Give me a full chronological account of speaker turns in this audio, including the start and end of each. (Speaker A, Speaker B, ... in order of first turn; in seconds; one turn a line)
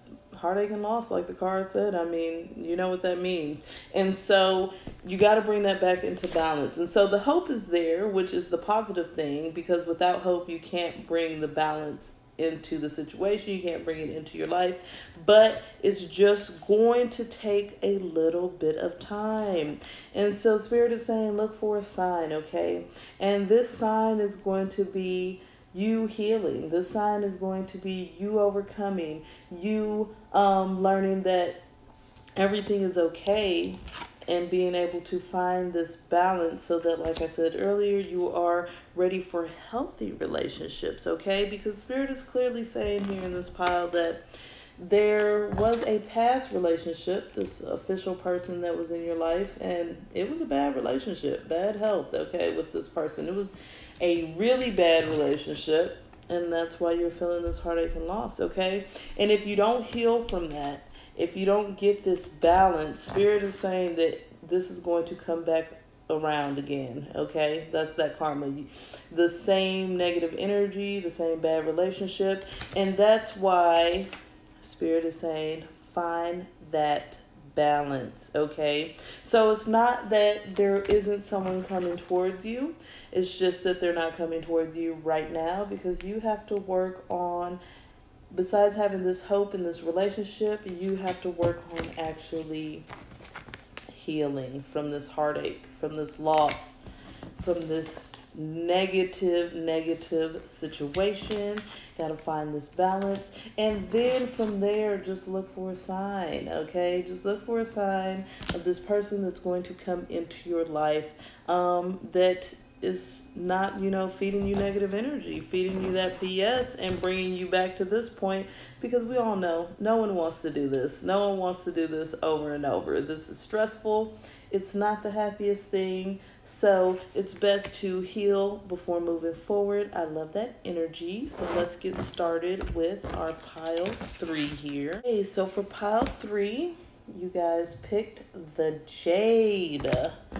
Speaker A: 0.3-31.6
Speaker A: 32.4-44.2
Speaker A: 44.8-87.6
Speaker A: 88.3-92.8
Speaker A: 93.9-96.8
Speaker A: 97.4-140.2